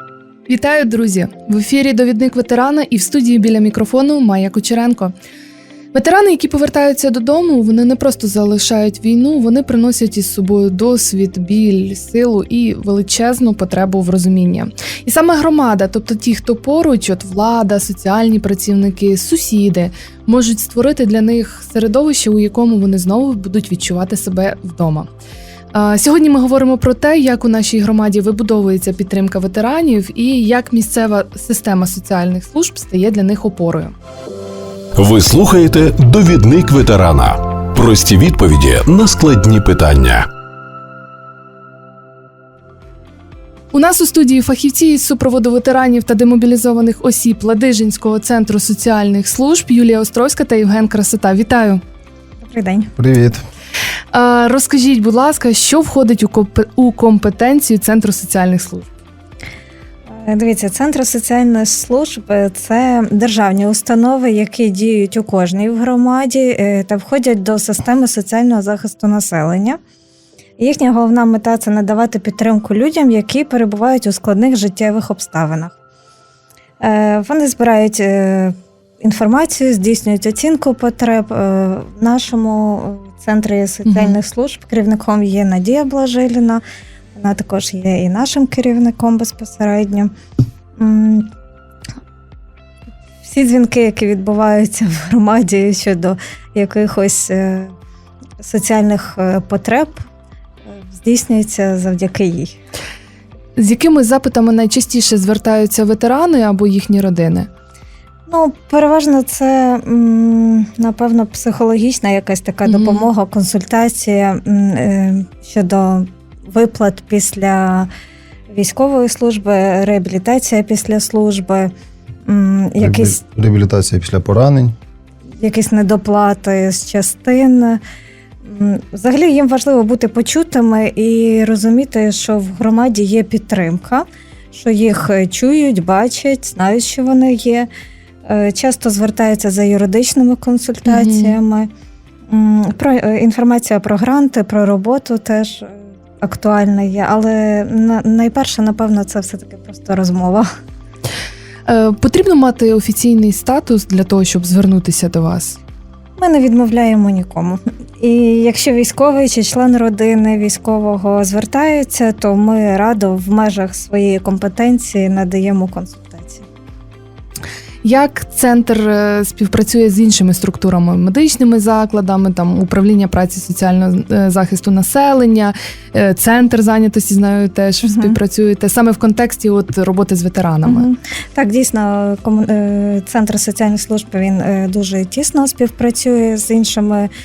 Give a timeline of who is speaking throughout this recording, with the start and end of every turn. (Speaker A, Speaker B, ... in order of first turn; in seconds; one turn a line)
Speaker A: 0.5-5.1
Speaker A: 5.9-25.1
Speaker A: 25.7-33.9
Speaker B: 34.9-40.3
Speaker A: 43.7-51.8
Speaker C: 52.5-52.9
Speaker D: 53.0-53.4
Speaker A: 54.1-58.9
Speaker C: 60.2-69.8
Speaker C: 70.6-75.7
Speaker C: 76.8-86.6
Speaker A: 83.8-84.2
Speaker C: 87.2-90.1
Speaker C: 90.8-91.3
Speaker C: 93.2-97.7
Speaker C: 98.4-100.0
Speaker C: 100.8-102.5
Speaker A: 103.6-107.5
Speaker C: 108.3-117.9
Speaker A: 112.7-113.1
Speaker C: 118.5-121.7
Speaker C: 122.2-123.2
Speaker D: 122.8-124.8
Speaker C: 125.4-127.8
Speaker C: 128.4-137.7
Speaker C: 138.2-141.7
Speaker A: 140.8-141.4
Speaker C: 142.3-150.5
Speaker A: 151.7-155.6
Speaker C: 156.2-166.4
Speaker A: 167.8-180.9
Speaker C: 177.8-178.2
Speaker C: 180.6-187.1